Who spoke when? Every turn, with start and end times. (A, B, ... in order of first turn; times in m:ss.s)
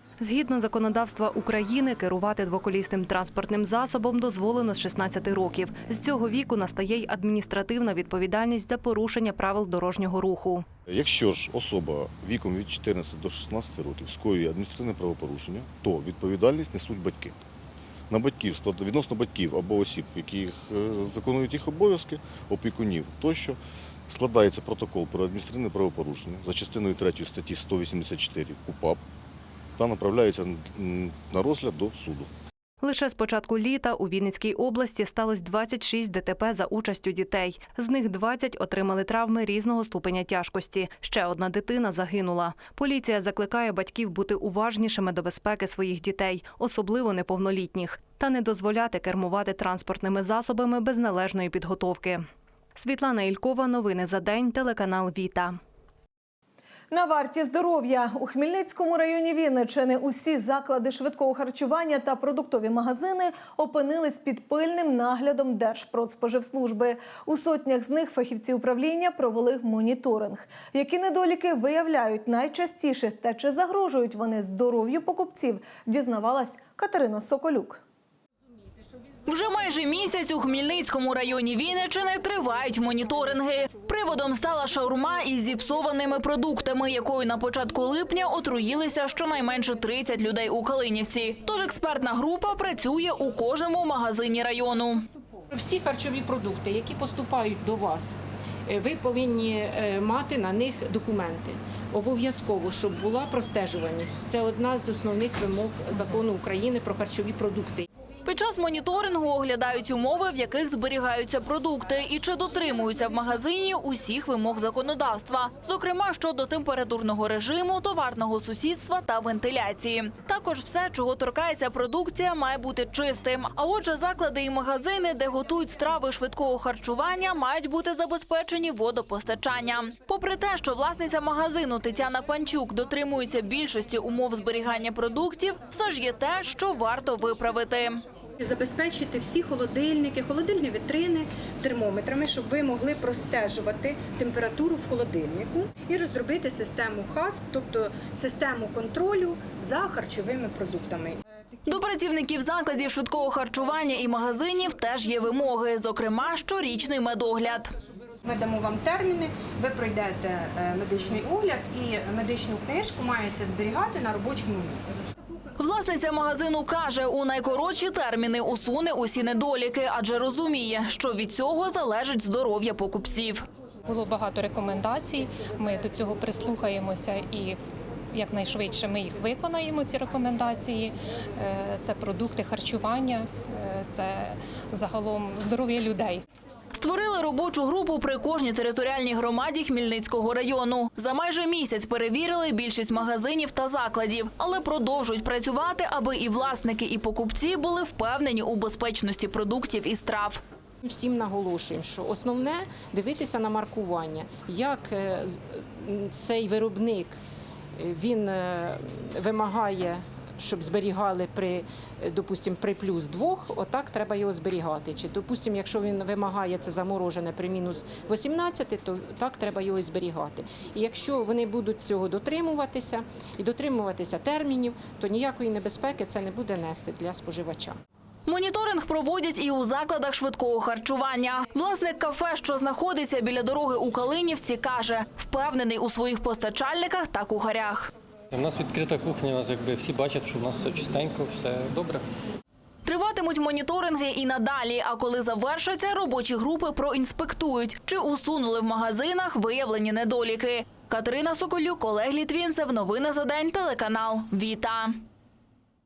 0:00.2-0:10.6 A
0:10.9-0:17.4 B
0:18.1-0:29.0 B
0:29.8-0:32.3 B
0:32.8-0:55.6 A
0:56.9-1:17.8 C
1:19.3-1:35.0 D
1:35.5-1:47.8 E
1:48.2-2:18.0 D
2:18.4-2:31.2 F
2:31.6-2:37.7 D
2:38.2-2:44.9 F
2:45.6-2:53.4 D
2:53.9-2:57.6 G
2:58.1-3:06.2 G
3:06.7-3:20.4 D
3:20.8-3:27.2 E
3:27.8-3:47.8 E
3:48.3-3:57.9 D
3:58.3-4:02.0 H
4:02.8-4:15.0 D